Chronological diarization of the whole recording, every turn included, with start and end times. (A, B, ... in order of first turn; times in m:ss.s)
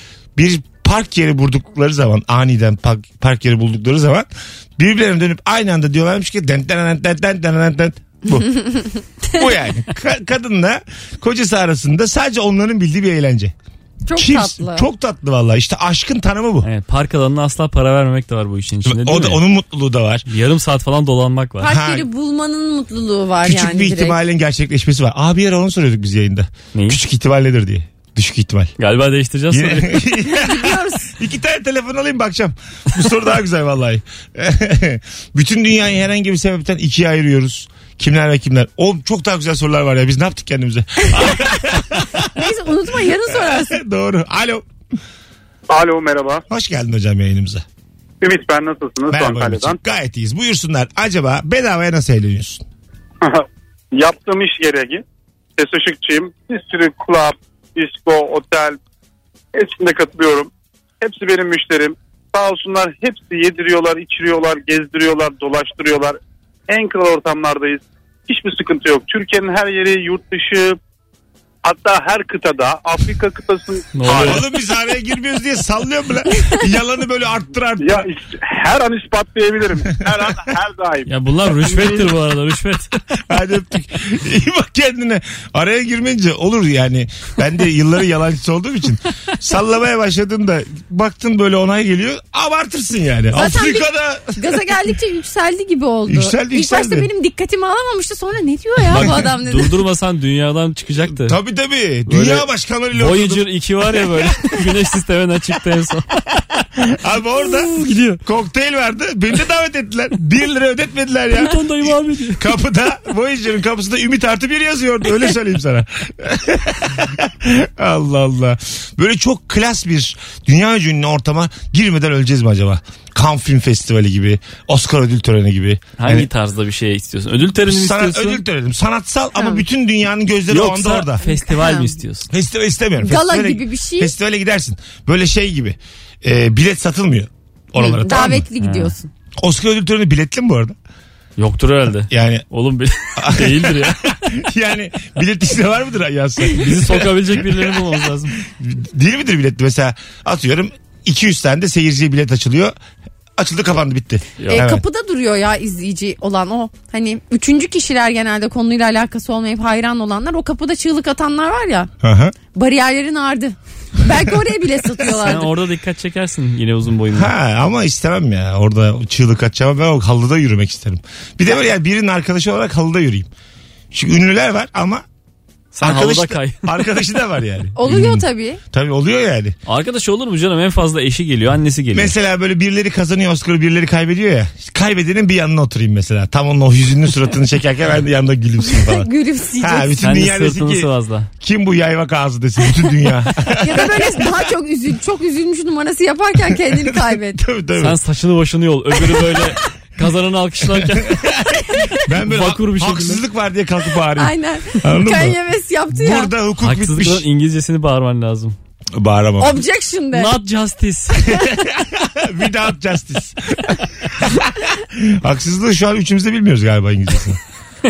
0:00.4-0:08.5 A
0:09.3-0:13.5 A
0:14.0-0:14.9 B
0:14.2-0:16.7 A
0:16.6-0:19.4 C
0:18.8-0:20.3 A
0:20.3-0:21.7 C
0:21.6-0:24.2 B
0:21.6-0:22.1 A
0:23.4-0:28.7 A
0:28.8-0:30.0 C
0:29.5-0:42.5 A
0:30.3-0:31.1 B
0:42.4-0:43.8 B
0:43.2-0:44.6 A
0:45.7-0:46.4 D
0:46.5-0:47.6 A
0:48.2-0:49.8 D
0:49.1-0:52.6 A
0:53.2-0:55.0 D
0:55.6-0:58.8 D
0:59.5-1:00.5 D
1:01.0-1:10.8 D
1:11.6-1:14.4 D
1:13.9-1:14.4 C
1:14.1-1:18.0 A
1:17.8-1:22.1 D
1:21.1-1:23.0 C
1:23.2-1:34.6 A
1:33.3-1:39.7 B
1:36.1-1:37.1 A
1:38.9-1:41.4 C
1:41.1-1:43.5 A
1:42.1-1:46.1 C
1:46.8-2:06.3 A
1:47.7-1:48.2 C
1:51.3-1:52.4 C
2:06.0-2:08.4 C
2:07.6-2:11.2 A
2:09.4-2:09.6 B
2:10.5-2:12.3 C
2:11.2-2:11.9 B
2:12.3-2:18.4 A
2:13.0-2:14.1 B
2:17.8-2:19.0 B
2:18.6-2:18.9 C
2:19.4-2:20.8 A
2:21.4-2:24.0 C
2:22.1-2:22.4 A
2:23.2-2:32.7 A
2:26.5-2:28.4 C
2:33.4-2:34.8 A
2:34.4-2:34.6 C
2:34.5-2:41.9 B
2:42.0-2:42.4 A
2:42.5-2:45.5 B
2:45.0-2:47.3 C
2:47.1-2:53.3 A
2:53.9-2:55.0 A
2:55.7-2:56.8 C
2:55.8-2:59.6 A
2:57.7-2:58.6 B
2:59.7-3:02.1 C
3:01.9-3:10.9 A
3:08.6-3:09.9 B
3:10.0-3:11.3 C
3:11.4-3:14.4 A
3:13.5-3:17.4 B
3:16.6-3:18.0 A
3:17.8-3:21.2 C
3:20.8-3:25.4 A
3:22.1-3:23.2 C
3:24.2-3:26.3 B
3:25.9-3:27.2 A
3:26.6-3:28.6 C
3:28.9-3:29.6 A
3:29.4-3:30.3 B
3:30.1-3:31.4 C
3:31.3-3:37.4 A